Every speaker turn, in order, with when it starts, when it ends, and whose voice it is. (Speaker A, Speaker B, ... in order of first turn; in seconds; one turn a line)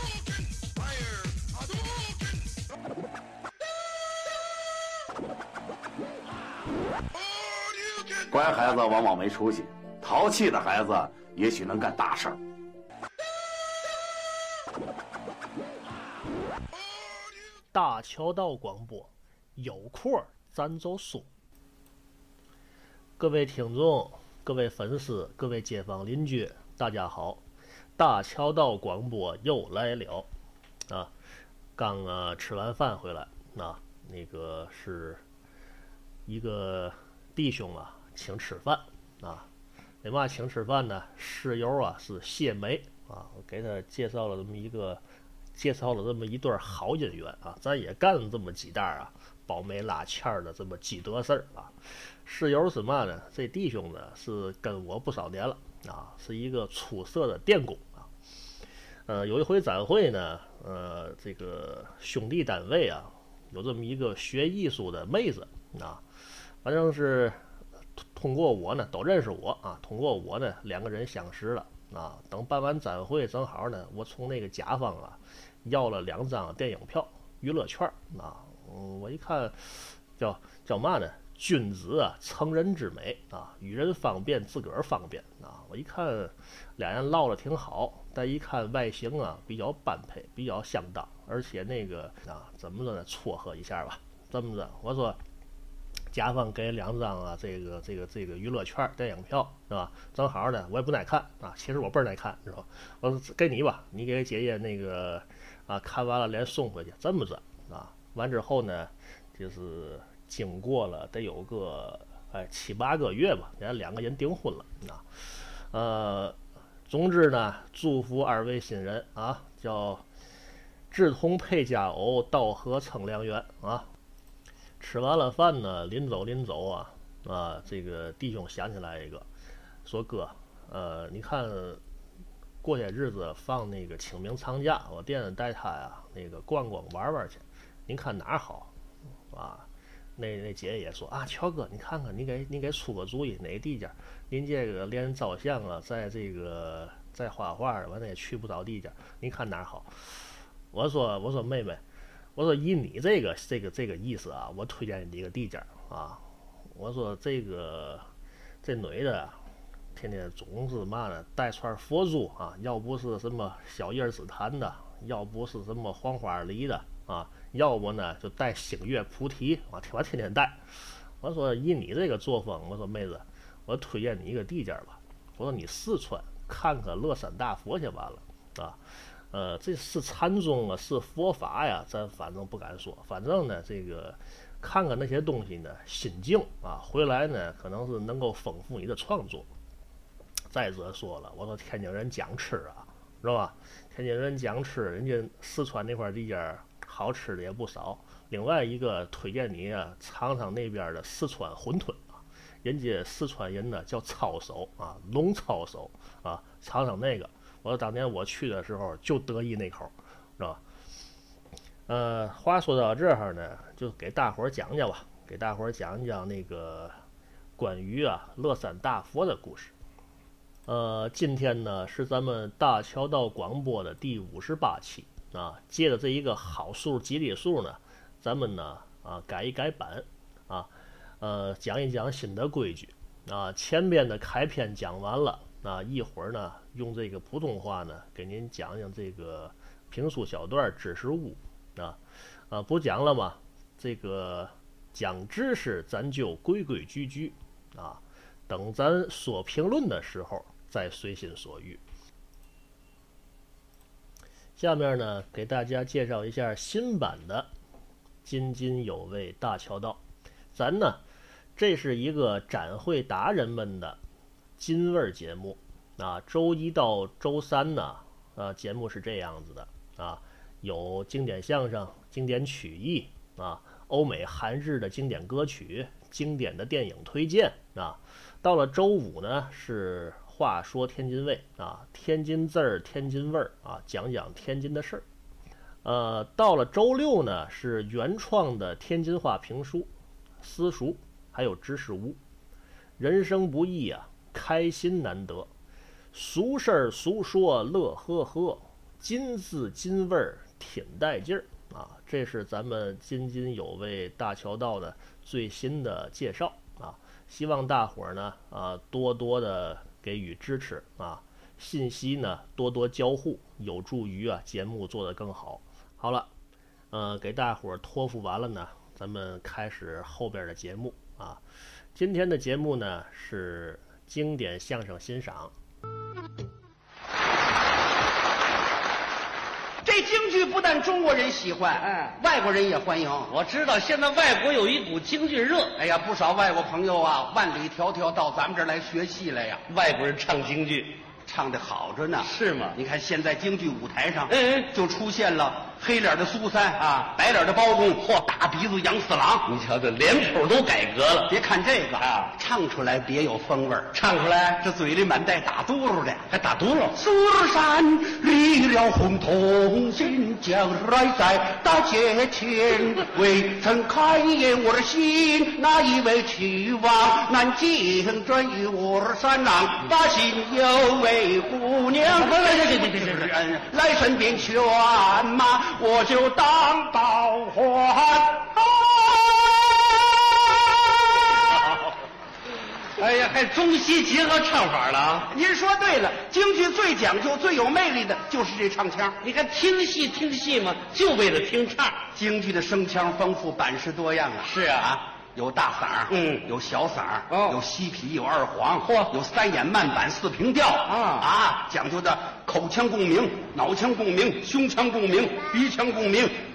Speaker A: 0.8-2.0
Speaker A: 7.4-12.4
Speaker B: 17.7-21.3
Speaker B: 23.2-27.4
Speaker B: 28.0-30.3
Speaker B: 31.8-35.2
Speaker B: 36.2-39.5
Speaker B: 40.0-45.0
Speaker B: 45.5-51.7
Speaker B: 52.2-58.1
Speaker B: 59.1-66.0
Speaker B: 66.6-67.4
Speaker B: 68.1-95.2
Speaker B: 96.1-115.0
Speaker B: 115.7-116.4
Speaker B: 116.9-120.0
Speaker B: 120.9-123.8
Speaker B: 124.8-129.2
Speaker B: 129.8-131.8
Speaker B: 132.6-138.7
Speaker B: 139.3-149.9
Speaker B: 150.7-151.8
Speaker B: 152.3-156.2
Speaker B: 156.7-158.1
Speaker B: 158.6-159.4
Speaker B: 159.9-170.6
Speaker B: 171.2-178.8
Speaker B: 179.3-189.5
Speaker B: 190.5-210.6
Speaker B: 211.9-217.0
Speaker B: 217.6-219.7
Speaker B: 220.7-242.0
Speaker B: 242.5-251.8
Speaker B: 254.6-257.5
Speaker B: 258.2-260.0
Speaker B: 260.5-261.0
Speaker B: 261.6-264.0
Speaker B: 264.6-285.0
Speaker B: 285.8-289.9
Speaker B: 290.4-292.2
Speaker B: 293.0-295.5
Speaker B: 296.1-316.3
Speaker B: 316.9-321.4
Speaker B: 321.9-325.5
Speaker C: 329.8-333.3
Speaker D: 333.3-335.8
Speaker C: 335.8-339.6
Speaker D: 339.7-341.0
Speaker C: 341.2-349.5
Speaker D: 342.2-342.8
Speaker D: 344.3-344.7
Speaker D: 346.8-347.1
Speaker D: 349.5-351.4
Speaker C: 351.3-356.3
Speaker D: 352.0-352.3
Speaker D: 353.9-354.4
Speaker D: 356.3-357.0
Speaker C: 356.9-381.5
Speaker D: 372.0-373.3
Speaker D: 381.4-381.9
Speaker D: 383.0-385.3
Speaker C: 385.3-389.2
Speaker D: 389.2-392.0
Speaker C: 392.1-406.4
Speaker D: 394.4-394.9
Speaker D: 396.1-396.5
Speaker D: 397.3-397.6
Speaker D: 398.8-399.1
Speaker D: 400.9-401.3